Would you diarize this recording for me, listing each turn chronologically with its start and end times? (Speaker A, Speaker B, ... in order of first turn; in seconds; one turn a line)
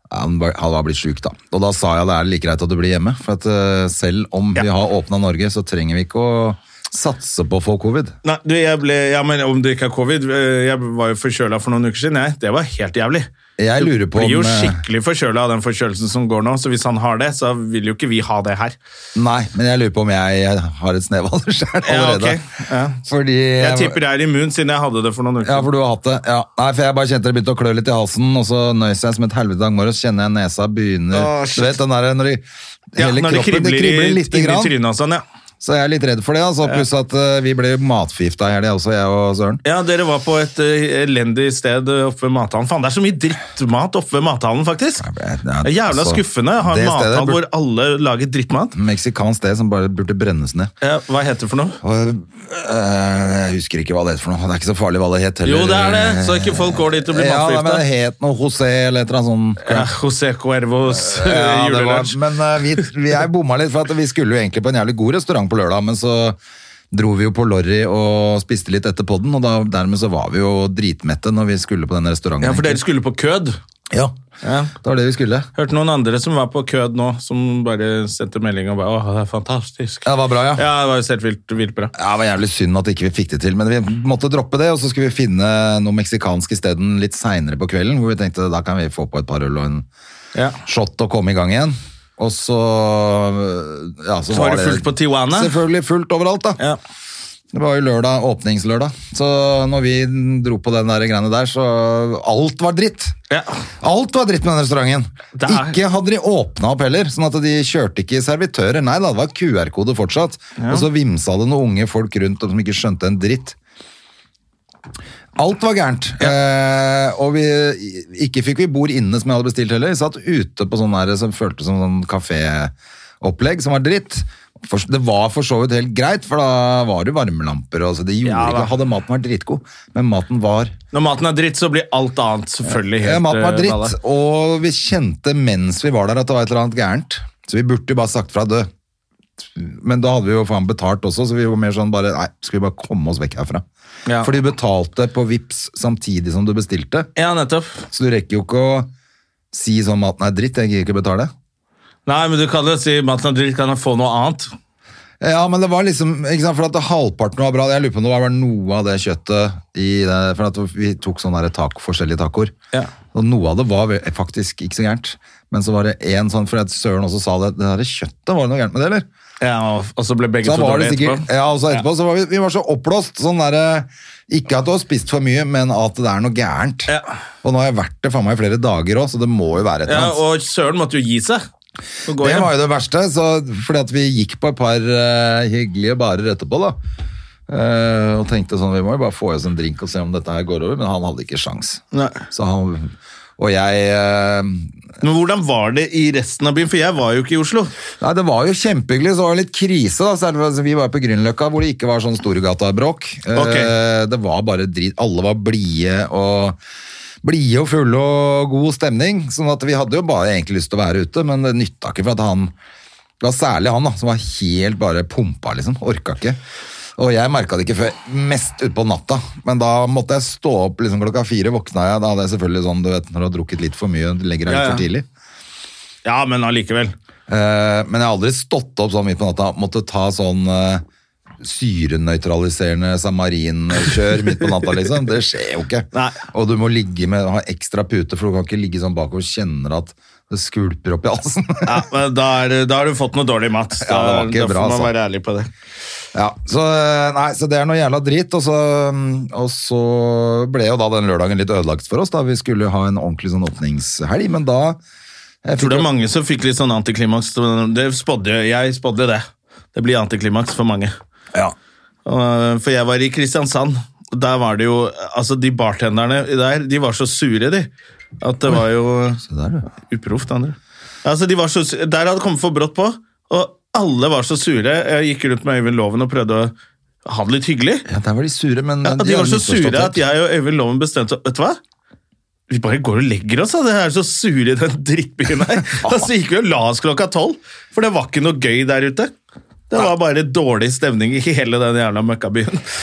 Speaker A: 0.1-8.1
Speaker B: 8.2-13.3
Speaker A: 13.6-14.8
Speaker B: 13.8-18.8
Speaker A: 19.1-22.4
Speaker B: 21.8-23.0
Speaker A: 23.0-24.0
Speaker B: 23.6-25.7
Speaker A: 25.4-34.7
Speaker B: 31.1-31.8
Speaker B: 33.0-35.2
Speaker A: 35.6-39.6
Speaker B: 39.6-45.0
Speaker A: 45.0-47.4
Speaker B: 45.6-48.7
Speaker A: 48.7-50.7
Speaker B: 50.8-51.8
Speaker A: 51.8-59.9
Speaker B: 55.4-57.8
Speaker B: 59.6-62.2
Speaker A: 60.9-66.4
Speaker A: 66.9-72.8
Speaker B: 72.4-73.6
Speaker B: 74.4-74.7
Speaker A: 74.8-75.5
Speaker B: 75.5-81.9
Speaker A: 80.0-80.6
Speaker A: 81.9-89.8
Speaker A: 90.6-96.6
Speaker B: 94.3-95.5
Speaker A: 97.5-103.1
Speaker B: 103.3-103.6
Speaker A: 103.8-113.5
Speaker B: 105.3-105.8
Speaker B: 110.6-110.9
Speaker A: 115.3-130.7
Speaker B: 128.2-128.7
Speaker B: 130.9-134.0
Speaker A: 132.7-138.7
Speaker A: 139.5-143.6
Speaker B: 144.1-144.3
Speaker A: 144.2-147.1
Speaker B: 147.2-147.8
Speaker A: 147.9-148.9
Speaker A: 149.5-151.3
Speaker B: 152.1-154.5
Speaker A: 155.2-162.5
Speaker A: 163.1-169.1
Speaker B: 169.4-171.8
Speaker A: 170.4-176.9
Speaker A: 177.4-180.2
Speaker B: 179.8-181.4
Speaker B: 182.1-182.5
Speaker A: 182.2-186.8
Speaker A: 187.5-194.7
Speaker B: 191.9-192.2
Speaker B: 195.0-197.7
Speaker A: 198.0-206.6
Speaker B: 203.3-203.7
Speaker A: 207.2-212.5
Speaker A: 213.2-216.4
Speaker A: 217.0-225.1
Speaker B: 224.4-224.8
Speaker B: 226.0-226.9
Speaker A: 227.3-230.8
Speaker A: 231.4-241.8
Speaker B: 235.9-236.2
Speaker B: 241.6-245.5
Speaker A: 243.8-244.9
Speaker A: 246.1-254.8
Speaker A: 255.4-255.9
Speaker B: 255.6-260.9
Speaker B: 262.1-267.7
Speaker B: 268.2-269.2
Speaker A: 269.2-269.6
Speaker B: 269.7-276.5
Speaker B: 277.0-277.8
Speaker A: 277.9-280.0
Speaker B: 278.8-281.6
Speaker B: 282.5-289.1
Speaker A: 285.8-286.1
Speaker B: 289.7-292.6